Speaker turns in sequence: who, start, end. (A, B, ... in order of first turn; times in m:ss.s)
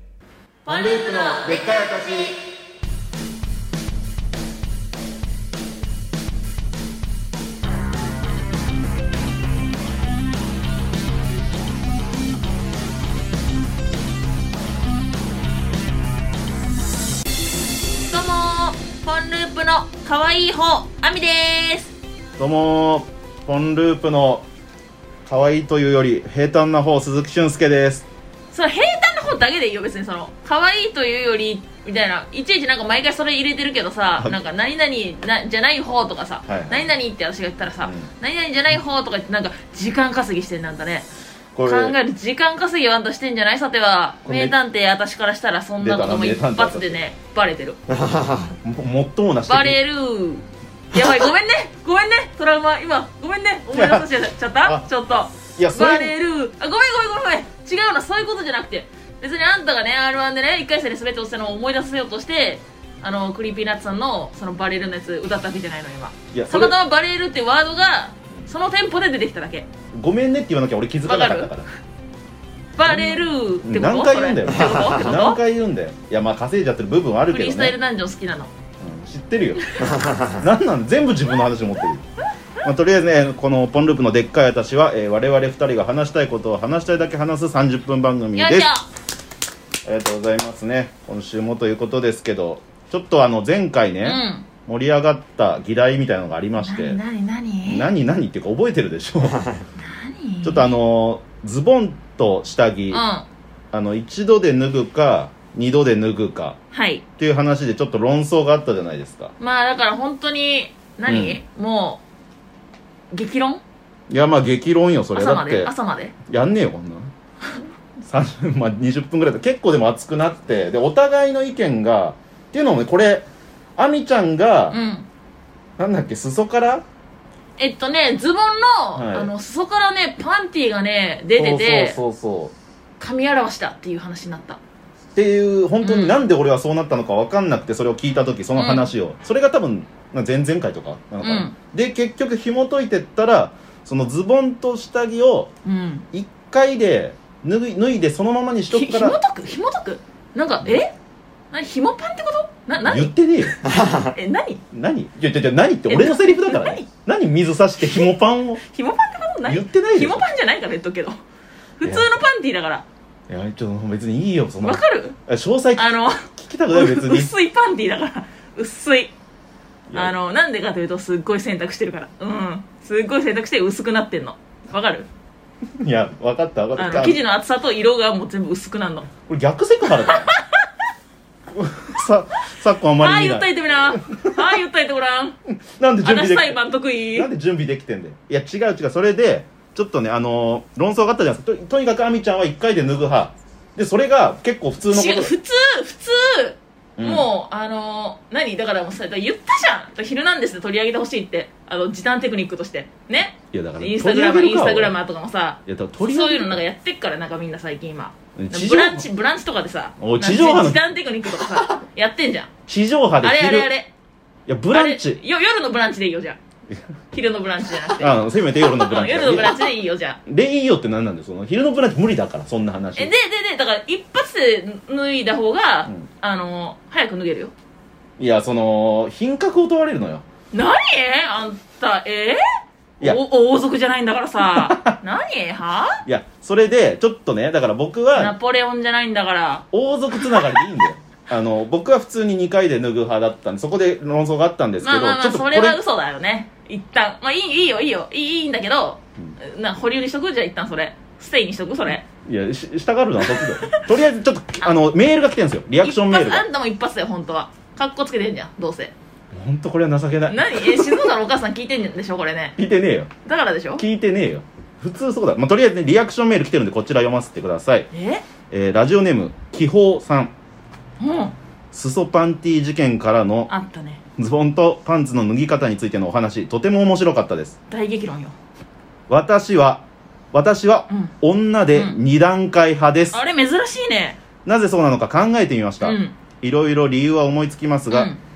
0:00.6-0:02.4 A
0:00.7-0:01.9 B
0:18.0-0:21.9 A
0:22.4-0:24.4 B
0:25.2-0:28.0 B
0:28.5-0:41.1 A
0:36.5-0:36.9 B
0:37.8-0:38.1 B
0:41.5-0:42.0 B
0:41.6-0:47.8 A
0:44.2-0:44.5 B
0:45.8-0:47.0 B
0:48.4-0:49.8 B
0:49.5-1:09.7 A
0:53.7-0:54.1 B
0:55.4-0:56.1 B
1:06.3-1:06.8 B
1:09.9-1:11.7 B
1:11.0-1:11.5 A
1:12.8-1:15.4 A
1:12.8-1:17.8 B
1:17.3-1:18.5 A
1:18.8-1:22.0 B
1:22.6-1:28.7 B
1:28.4-1:28.9 A
1:29.8-1:37.0 B
1:34.0-1:34.4 A
1:36.6-1:37.9 A
1:37.6-1:39.5 B
1:39.8-1:40.7 A
1:40.4-1:43.0 B
1:42.9-1:43.2 A
1:43.7-1:46.6 B
1:46.7-1:47.0 A
1:47.2-1:49.3 B
1:49.4-1:52.0 A
1:51.1-1:51.4 B
1:53.1-1:53.6 A
1:54.1-1:55.7 B
1:55.1-1:56.1 A
1:56.2-1:57.1 B
1:58.0-2:04.8 B
2:04.7-2:05.1 A
2:05.8-2:06.8 B
2:07.6-2:12.0 A
2:09.0-2:09.3 B
2:11.3-2:12.5 B
2:13.0-2:14.6 A
2:15.1-2:25.5 B
2:15.8-2:16.2 A
2:18.6-2:18.9 A
2:21.2-2:21.6 A
2:25.6-2:26.1 A
2:26.1-2:29.2 B
2:28.7-2:30.9 A
2:31.5-2:34.6 A
2:32.8-2:33.6 B
2:34.7-2:38.6 B
2:35.9-2:36.9 A
2:38.6-2:41.2 A
2:39.5-2:40.3 B
2:41.8-2:42.8 A
2:41.8-2:42.1 B
2:43.3-2:47.3 B
2:44.6-2:45.2 A
2:45.7-2:49.1 A
2:49.9-2:50.1 B
2:49.9-2:55.1 A
2:55.8-2:57.2 B
2:56.8-2:59.1 A
2:59.2-3:00.3 B
3:00.0-3:00.6 A
3:01.5-3:04.4 B
3:03.0-3:05.4 A
3:05.6-3:15.3 B
3:06.0-3:07.3 A
3:14.9-3:32.5 A
3:17.0-3:17.3 B
3:23.5-3:24.9 B
3:25.6-3:26.6 B
3:28.4-3:29.0 B
3:30.0-3:30.8 B
3:32.7-3:33.7 B
3:33.2-3:33.9 A
3:34.5-3:35.2 B
3:34.7-3:36.4 A
3:37.1-3:40.2 A
3:37.9-3:39.7 B
3:40.2-3:43.1 B
3:43.0-3:47.5 A
3:48.2-3:50.2 B
3:50.5-3:52.4 A
3:53.0-3:56.0 A
3:54.4-3:55.0 B
3:56.0-3:58.3 B
3:58.1-3:59.6 A
3:59.7-4:05.8 B
4:00.2-4:00.6 A
4:04.8-4:12.0 A
4:12.2-4:16.5 B
4:13.2-4:13.9 A
4:15.8-4:18.9 A
4:19.3-4:21.1 B
4:20.3-4:22.6 A
4:22.6-4:23.1 B
4:23.2-4:23.8 A
4:23.8-4:27.9 B
4:27.9-4:28.2 A
4:28.5-4:30.3 B
4:31.0-4:31.3 A
4:31.7-4:33.5 B
4:33.5-4:34.0 A
4:34.2-4:37.6 B
4:37.7-4:38.4 A
4:39.1-4:43.2 B
4:43.1-4:44.2 A
4:44.4-4:48.1 B
4:45.8-4:46.1 A
4:47.9-4:48.2 A